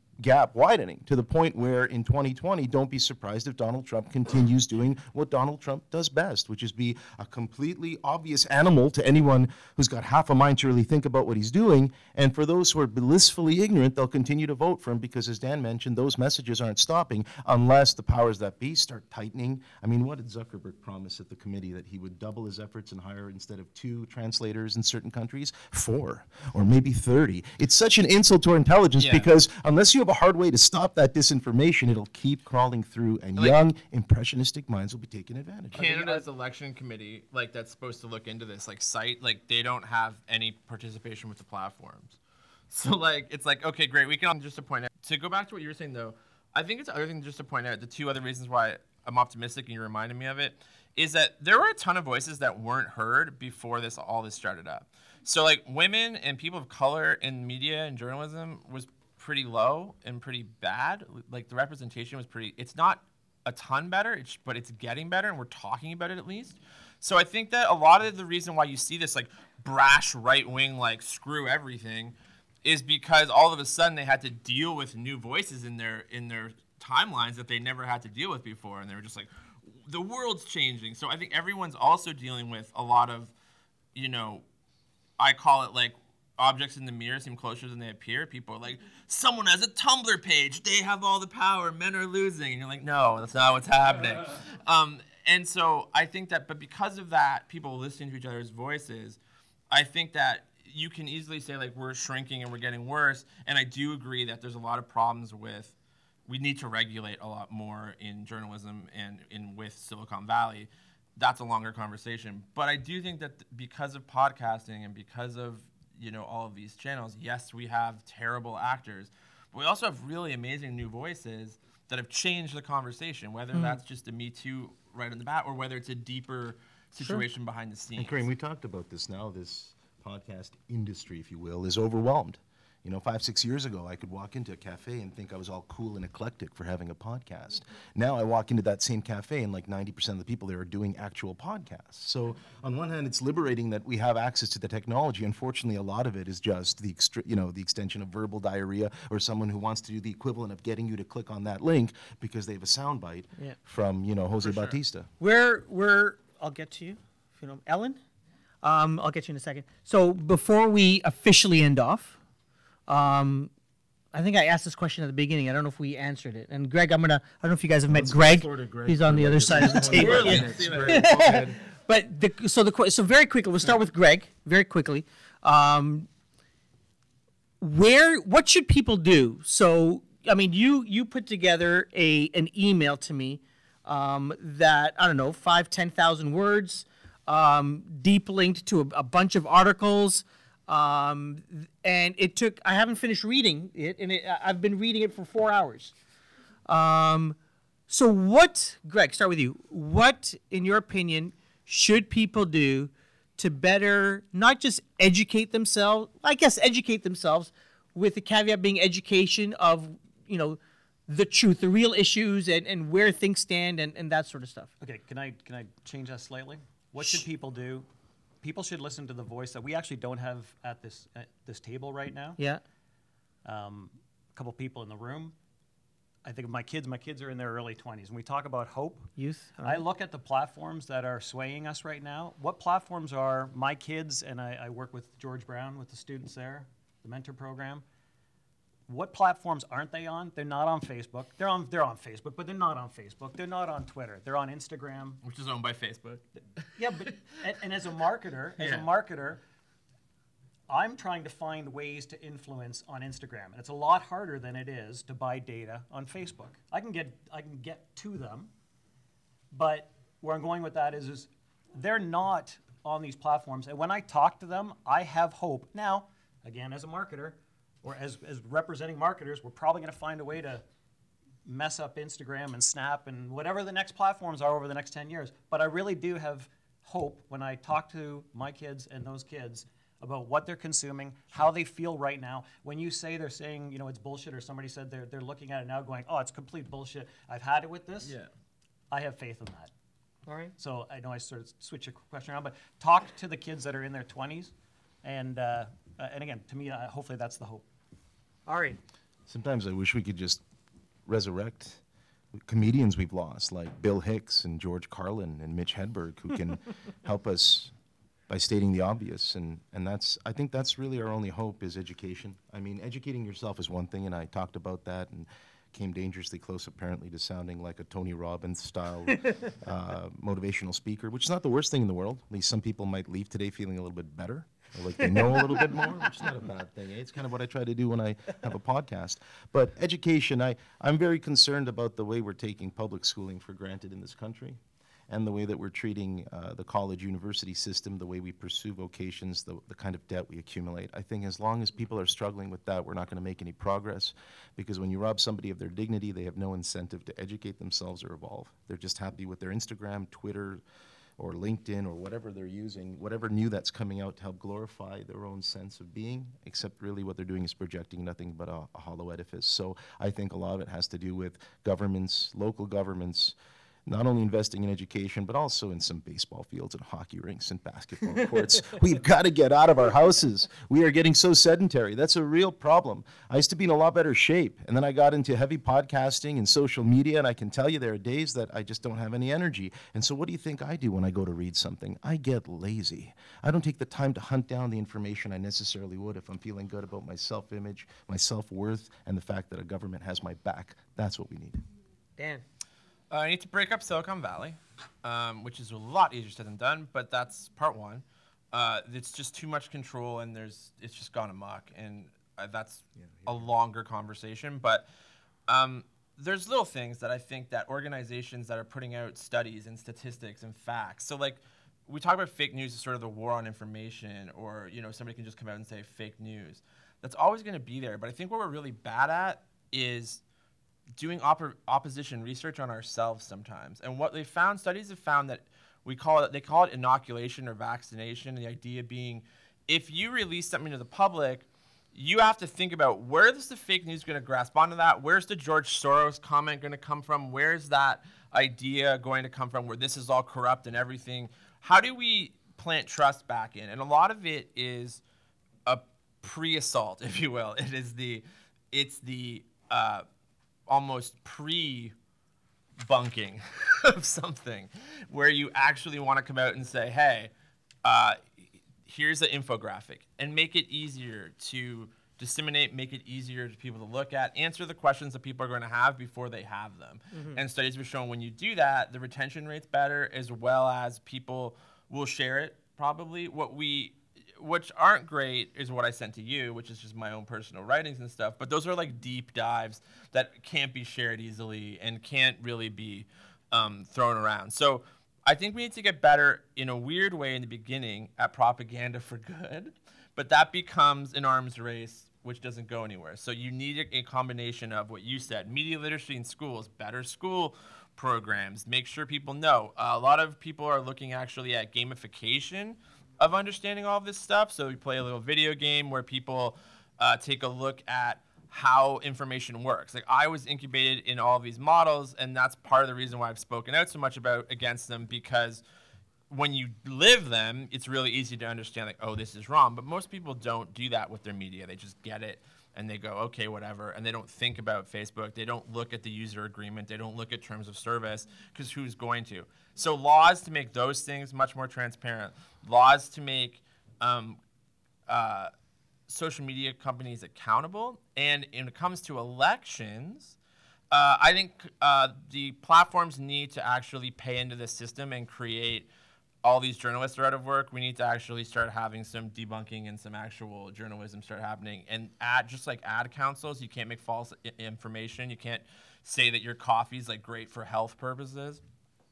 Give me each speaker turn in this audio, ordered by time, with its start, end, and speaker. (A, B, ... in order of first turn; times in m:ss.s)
0:00.2-0:36.2 A
0:29.0-0:29.3 B
0:35.7-0:42.2 B
0:42.7-1:23.3 B
1:24.0-1:24.4 B
1:25.2-1:39.2 B
1:39.7-1:45.8 B
1:46.3-2:08.2 B
2:08.0-2:35.1 A
2:35.2-2:38.0 C
2:38.6-2:42.2 C
2:42.9-2:43.5 C
2:44.1-2:56.1 C
2:47.9-2:51.6 A
2:49.6-2:51.6 B
2:57.6-3:16.0 C
3:16.7-3:17.4 C
3:17.9-3:34.7 C
3:34.8-3:37.9 D
3:38.4-3:42.4 D
3:43.4-3:45.4 D
3:46.2-3:49.1 D
3:49.2-3:49.8 C
3:49.6-3:57.8 D
3:58.9-4:05.2 D
4:05.2-4:06.2 B
4:06.8-4:09.4 D
4:06.9-4:07.2 B
4:08.6-4:08.9 B
4:10.7-4:18.5 D
4:19.5-4:30.6 D
4:31.4-4:48.2 D
4:48.0-4:48.3 B
4:48.9-4:49.7 D
4:50.3-4:50.5 C
4:50.6-4:57.7 D
4:58.5-4:58.8 C
4:59.3-5:00.4 A
5:01.1-5:01.8 A
5:02.3-5:07.7 A
5:08.3-5:50.6 A
5:51.2-6:31.6 A
6:32.2-6:32.4 C
6:33.1-6:44.9 B
6:45.5-7:00.2 B
7:01.0-7:25.0 B
7:25.7-7:30.0 B
7:30.7-7:32.0 B
7:32.8-7:37.3 B
7:37.8-7:38.2 B
7:38.8-8:35.6 B
7:47.1-7:47.4 C
8:36.3-8:54.4 B
8:55.1-8:55.5 B
8:56.1-9:00.4 B
9:00.9-9:05.9 B
9:06.4-9:18.6 B